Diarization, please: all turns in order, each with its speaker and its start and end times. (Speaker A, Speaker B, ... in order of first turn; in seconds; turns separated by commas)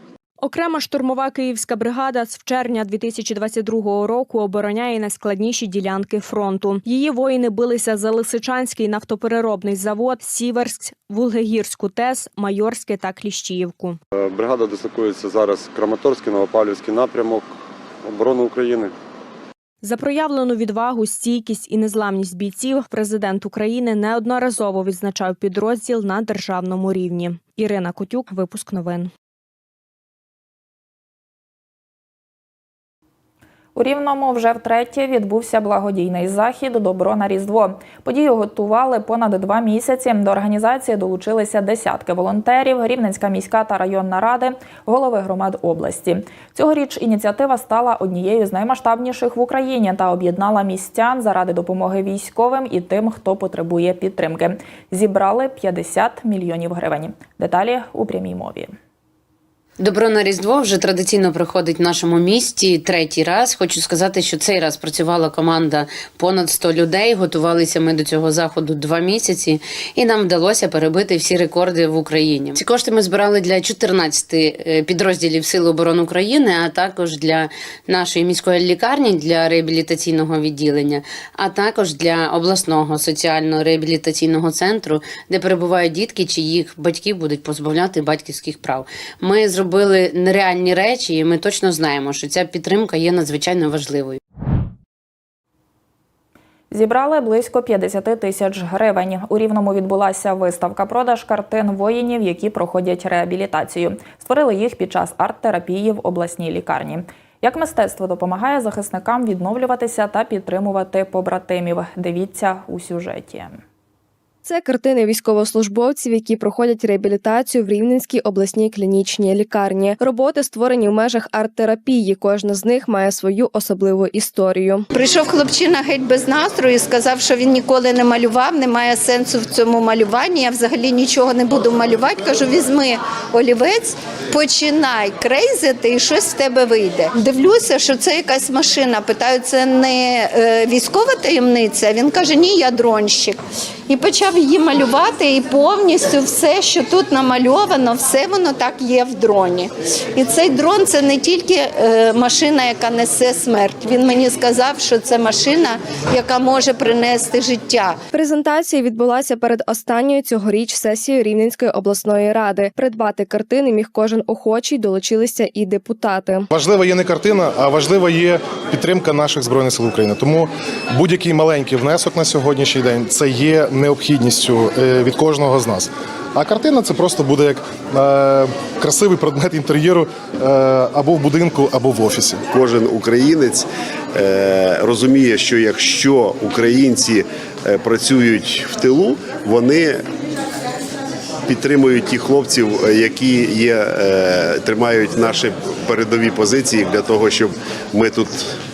Speaker A: 0.4-14.0, Speaker B: 14.2-17.4, Speaker B: 18.0-18.9, Speaker A: 19.8-29.1, Speaker C: 33.8-58.7, Speaker D: 59.8-94.2, Speaker C: 96.7-113.6, Speaker E: 114.5-124.8, Speaker F: 124.9-158.0, Speaker E: 158.1-166.5, Speaker G: 166.5-182.4, Speaker H: 182.5-190.0, Speaker H: 191.5-198.4